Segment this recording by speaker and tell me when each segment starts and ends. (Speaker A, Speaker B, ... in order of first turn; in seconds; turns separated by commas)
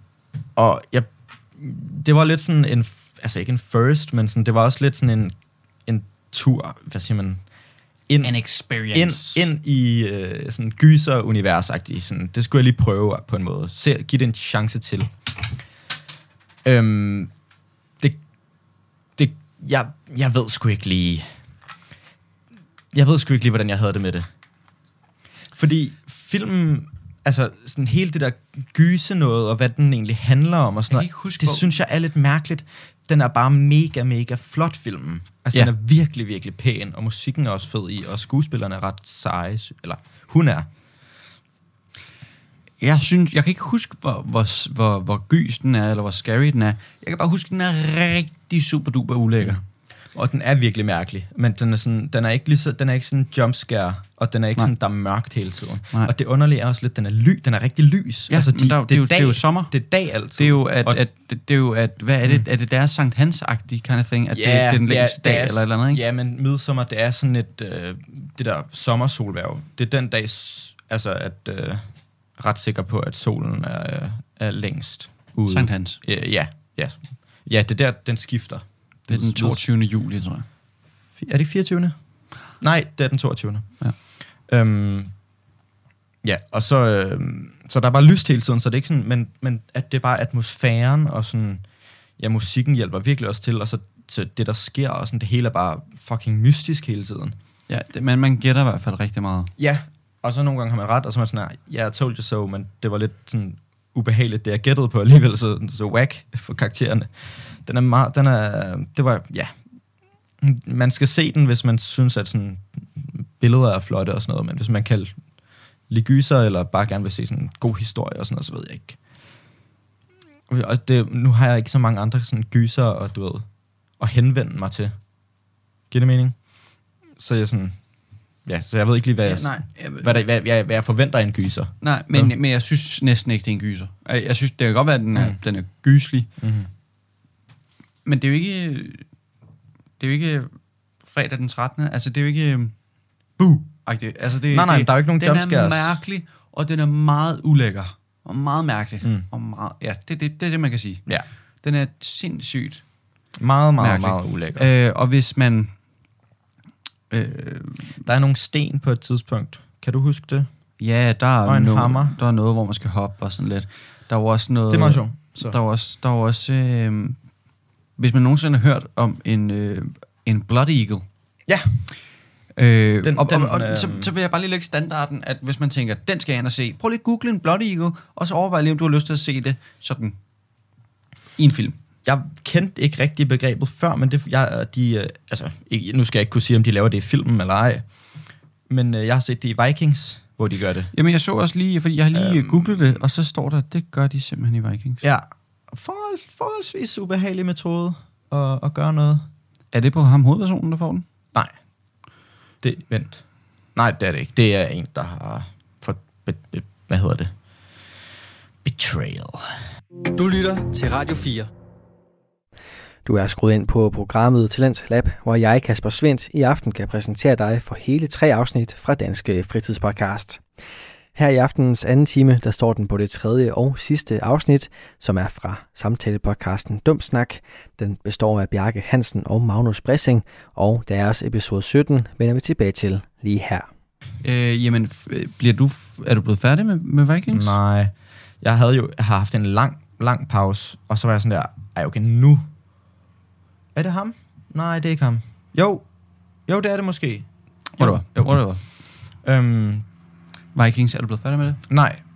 Speaker A: 0.6-5.3, Speaker A: 5.9-7.4, Speaker A: 8.1-8.3, Speaker B: 8.2-9.5, Speaker A: 8.9-15.1, Speaker A: 16.6-17.3, Speaker A: 19.1-21.3, Speaker A: 22.9-24.3, Speaker A: 25.5-40.7, Speaker B: 30.9-31.7, Speaker B: 42.8-49.6, Speaker A: 50.1-61.0, Speaker B: 58.3-59.8, Speaker B: 60.4-66.0, Speaker A: 64.3-79.6, Speaker B: 75.5-76.0, Speaker B: 79.1-80.5, Speaker A: 81.1-82.0, Speaker A: 82.6-83.8, Speaker A: 84.4-85.1, Speaker A: 86.2-91.6, Speaker A: 92.2-97.4, Speaker B: 97.7-99.5, Speaker A: 99.6-109.5, Speaker A: 110.4-115.1, Speaker A: 115.9-119.0, Speaker A: 120.5-123.5, Speaker A: 124.0-124.9, Speaker A: 125.9-126.4, Speaker A: 127.1-127.8, Speaker A: 128.4-132.3, Speaker B: 129.2-130.2, Speaker B: 131.8-136.3, Speaker A: 136.4-136.7, Speaker B: 138.1-139.1, Speaker B: 140.0-142.7, Speaker B: 143.4-151.1, Speaker A: 144.5-146.0, Speaker B: 151.6-152.8, Speaker A: 153.4-154.7, Speaker B: 153.8-155.7, Speaker B: 157.1-157.9, Speaker A: 157.9-160.5, Speaker B: 160.8-167.2, Speaker A: 161.4-162.2, Speaker A: 164.7-165.6, Speaker B: 168.0-171.1, Speaker A: 171.5-171.8, Speaker B: 172.6-180.2, Speaker A: 173.0-174.1, Speaker B: 181.4-181.8, Speaker A: 182.1-187.8, Speaker A: 188.7-190.9, Speaker B: 190.9-195.0, Speaker A: 192.1-192.8, Speaker A: 195.0-199.3, Speaker B: 199.7-201.1, Speaker A: 202.6-203.2, Speaker A: 203.8-207.3, Speaker A: 208.6-209.5, Speaker C: 210.1-211.5, Speaker C: 213.1-220.4, Speaker C: 221.1-233.7, Speaker B: 234.2-237.6, Speaker A: 237.3-242.4, Speaker A: 243.8-245.8, Speaker A: 246.5-247.3, Speaker B: 247.8-248.6, Speaker A: 247.8-248.4, Speaker A: 249.2-249.9, Speaker B: 250.6-251.6, Speaker A: 251.7-252.0